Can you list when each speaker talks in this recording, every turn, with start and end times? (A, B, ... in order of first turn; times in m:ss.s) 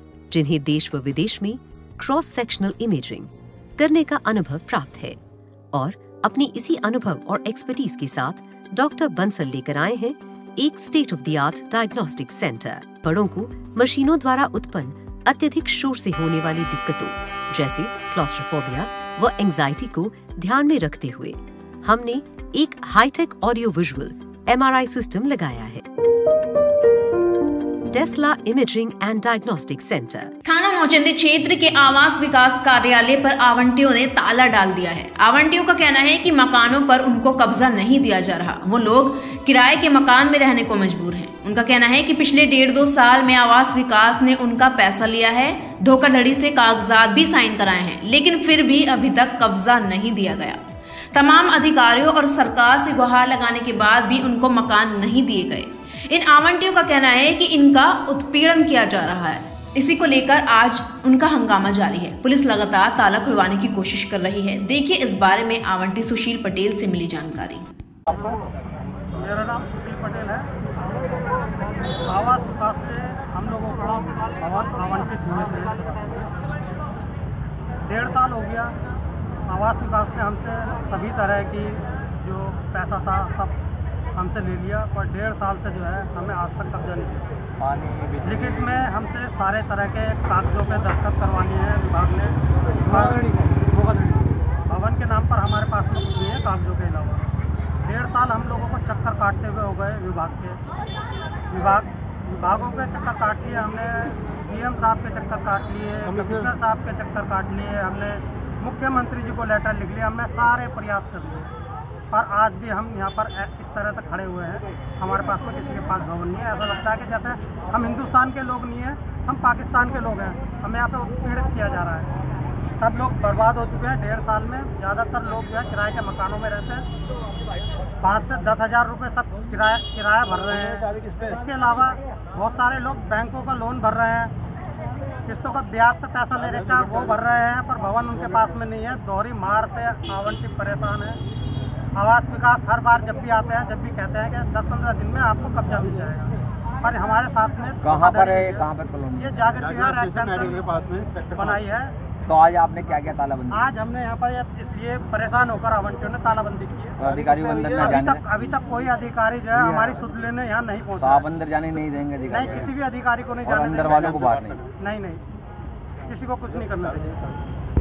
0:00.3-0:05.2 A
0:05.7-0:25.8 A
0:27.9-0:30.3 A
0:30.4-0:50.6 B
0:51.1-1:07.6 B
1:09.1-1:10.5 C
1:12.0-1:16.3 C
1:17.8-1:18.7 C
1:19.5-1:23.5 C
1:24.1-1:27.3 C
1:27.7-1:28.2 D
1:28.2-1:33.3 C
1:34.7-1:37.2 C
1:37.8-1:40.6 C
1:41.5-1:51.5 C
1:52.1-2:02.1 C
2:02.8-2:06.8 C
2:08.0-2:14.3 C
2:15.3-2:21.2 C
2:22.0-2:28.6 C
2:27.8-2:29.4 D
2:29.2-2:30.8 C
2:31.3-2:31.9 C
2:32.3-2:33.6 D
2:33.5-2:37.0 C
2:37.0-2:38.3 D
2:37.7-2:41.2 C
2:39.5-2:40.0 D
2:41.0-2:42.7 D
2:42.3-2:44.2 C
2:43.4-2:44.7 D
2:44.8-2:45.2 C
2:46.1-2:47.2 C